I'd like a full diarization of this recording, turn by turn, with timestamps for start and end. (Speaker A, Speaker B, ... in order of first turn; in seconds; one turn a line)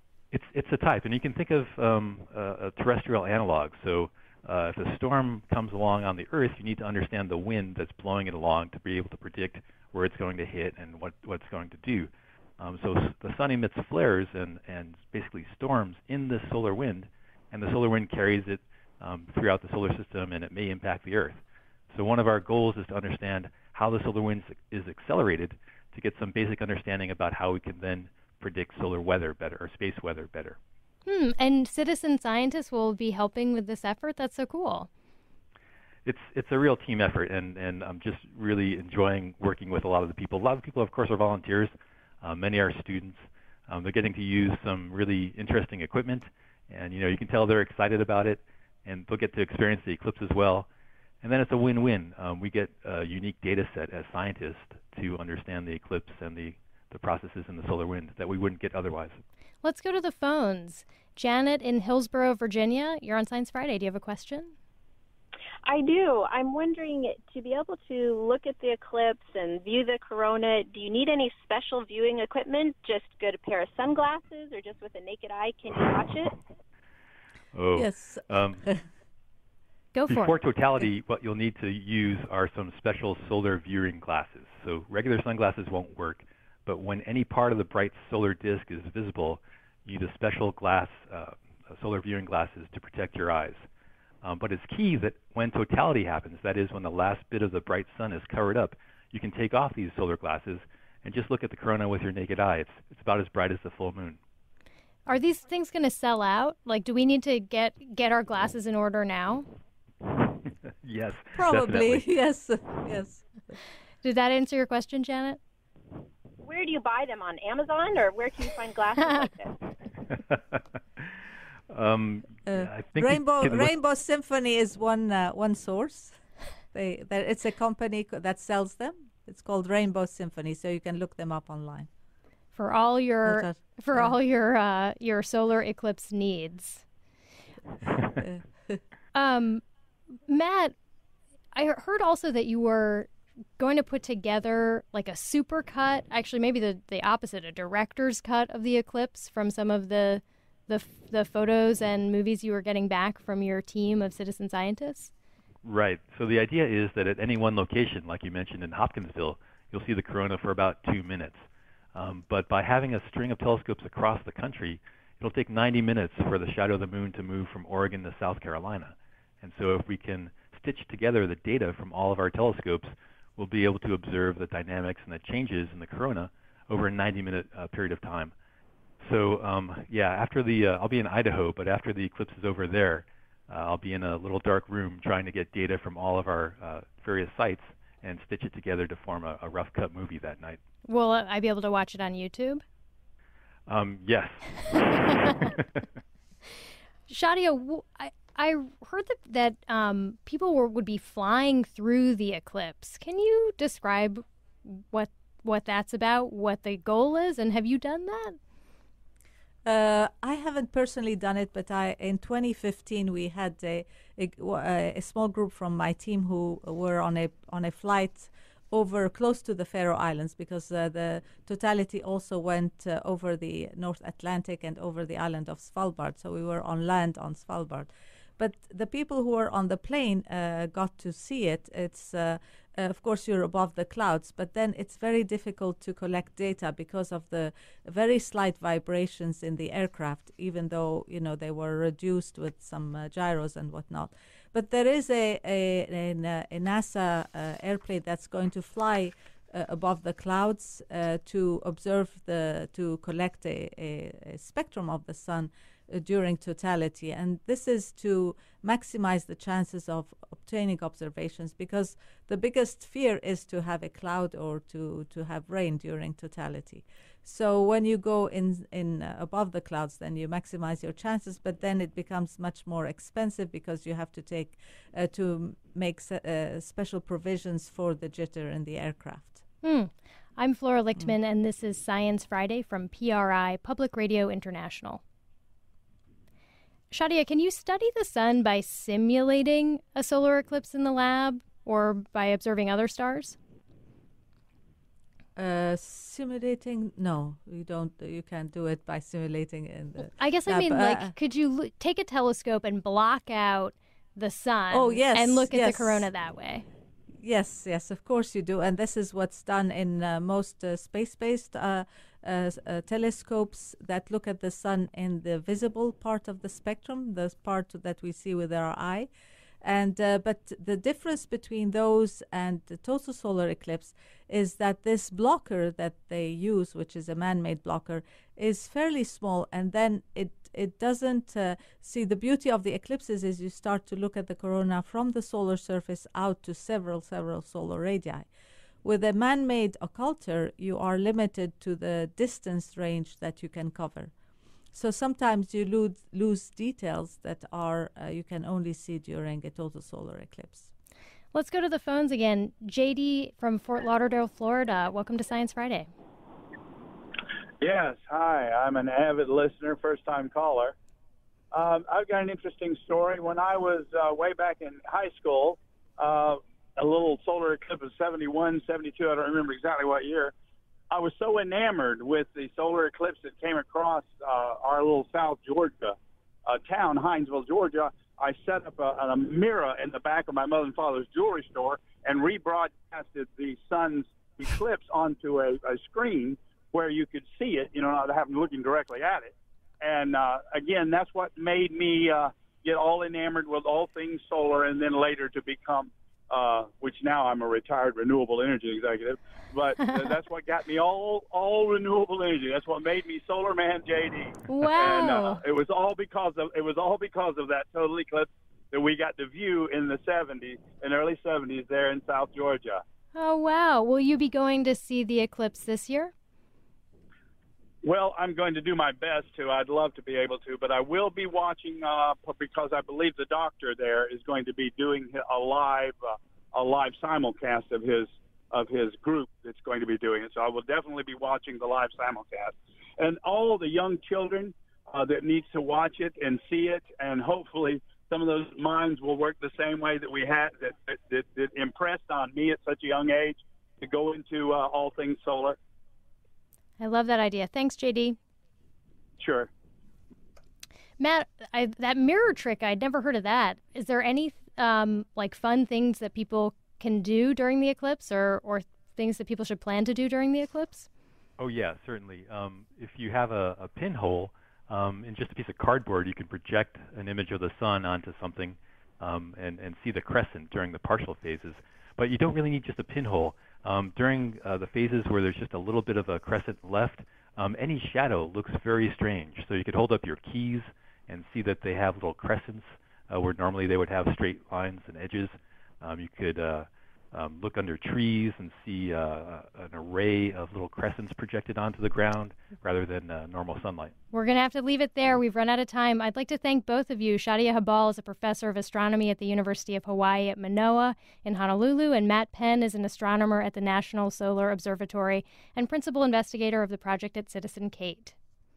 Speaker A: 0.3-21.4
Speaker A: 21.9-30.6
Speaker B: 31.1-34.9
Speaker A: 36.0-50.7
Speaker A: 51.2-59.2
Speaker B: 59.6-64.5
Speaker C: 65.7-76.3
Speaker A: 77.5-78.6
Speaker D: 77.8-78.8
Speaker B: 80.0-80.3
Speaker A: 80.1-93.7
Speaker A: 94.2-104.2
Speaker B: 105.1-109.5
Speaker A: 110.8-112.0
Speaker D: 111.4-113.2
Speaker B: 114.0-115.4
Speaker C: 116.4-119.6
Speaker A: 120.3-120.6
Speaker A: 121.7-123.7
Speaker D: 122.5-126.2
Speaker D: 126.7-131.9
Speaker B: 132.5-136.8
Speaker D: 133.3-134.1
Speaker D: 138.1-138.8
Speaker B: 139.1-139.6
Speaker B: 140.3-140.8
Speaker B: 141.6-155.1
Speaker A: 155.6-161.4
Speaker A: 161.9-178.3
Speaker A: 179.0-190.6
Speaker B: 190.8-192.6
Speaker A: 193.7-195.8
Speaker B: 197.1-208.4
Speaker D: 209.7-279.4
Speaker B: 279.6-285.0
Speaker B: 286.9-293.4
Speaker D: 295.4-301.1
Speaker B: 300.0-306.7
Speaker D: 304.7-306.1
Speaker D: 307.2-319.1
Speaker D: 319.6-338.3
Speaker D: 338.8-344.1
Speaker D: 344.7-350.7
Speaker B: 351.3-355.9
Speaker E: 357.6-360.8
Speaker E: 361.5-370.3
Speaker E: 370.9-412.8
Speaker B: 404.5-405.4
Speaker B: 413.1-416.1
Speaker E: 417.8-445.6
Speaker B: 446.8-448.2
Speaker E: 449.2-449.5
Speaker B: 451.0-460.9
Speaker A: 461.4-493.9
Speaker B: 494.1-508.1